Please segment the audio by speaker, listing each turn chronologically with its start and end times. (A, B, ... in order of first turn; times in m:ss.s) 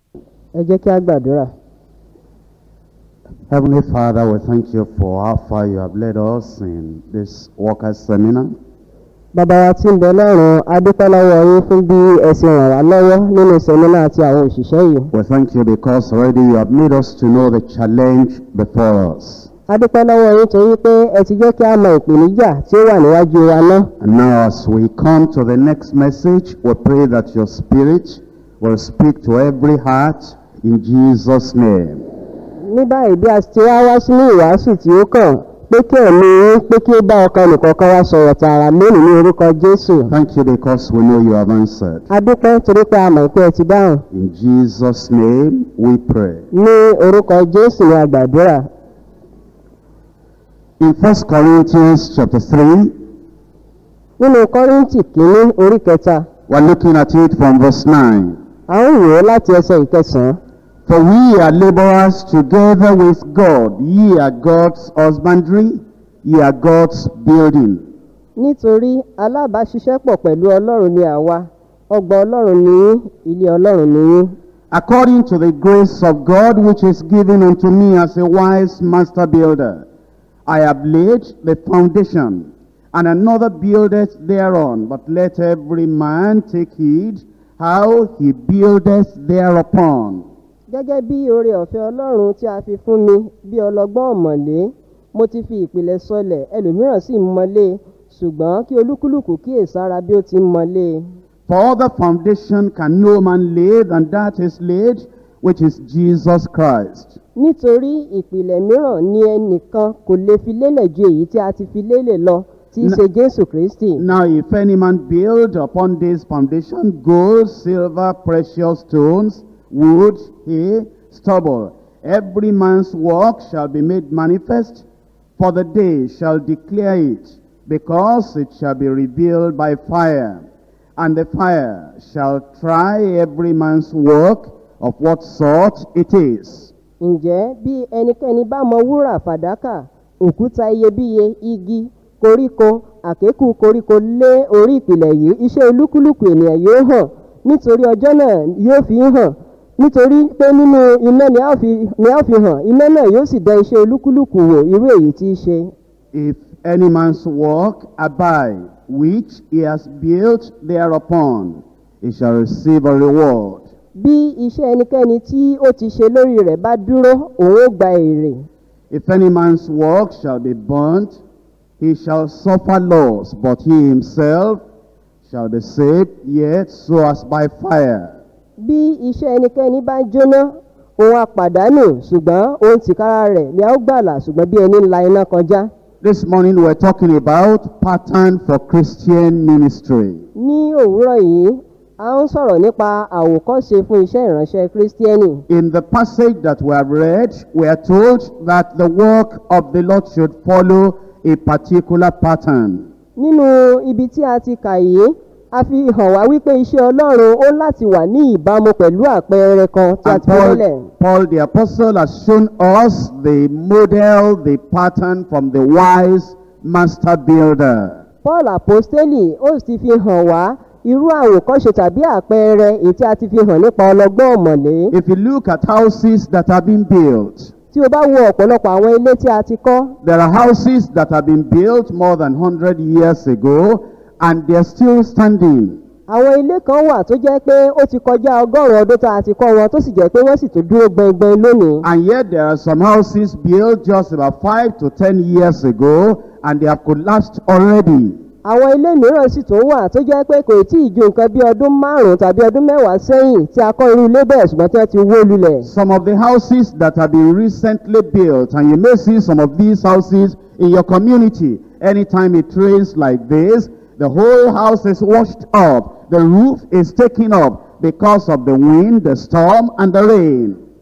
0:00.5-0:01.5 A
0:03.5-0:08.5 B
0:09.3-0:15.1 A
0:15.1-0:19.5 B
0:19.7-0:23.9 A
0:24.0-0:32.0 B
0:32.6-0:40.1 A
0:40.1-0:42.1 B
0:42.1-0:44.0 A
0:44.1-0:46.4 B
0:46.5-0:48.6 A
0:50.8-0:53.0 B
0:54.2-0:56.3 A
0:56.5-0:58.4 B
0:58.7-1:00.4 A
1:00.9-1:07.9 B
1:08.4-1:14.3 A
1:14.7-1:19.9 B
1:20.4-1:30.2 B
1:30.7-1:41.0 A
1:41.5-1:47.2 B
1:47.4-1:54.0 A
1:54.0-2:04.8 B
2:05.4-2:10.5 B
2:11.0-2:16.7 B
2:17.0-2:35.7 A
2:36.1-2:43.7 B
2:44.0-2:48.4 A
2:48.9-2:51.2 B
2:51.8-2:54.6 B
2:55.3-2:58.2 B
2:58.6-3:05.7 A
3:06.0-3:10.2 B
3:10.4-3:15.4 A
3:15.5-3:22.9 B
3:23.2-3:30.9 A
3:30.0-3:38.0 B
3:38.2-3:44.9 A
3:44.9-3:47.5 B
3:47.7-3:49.9 A
3:50.0-3:55.8 B
3:56.1-4:01.8 A
4:01.8-4:08.2 B
4:08.4-4:15.7 A
4:15.6-4:30.6 B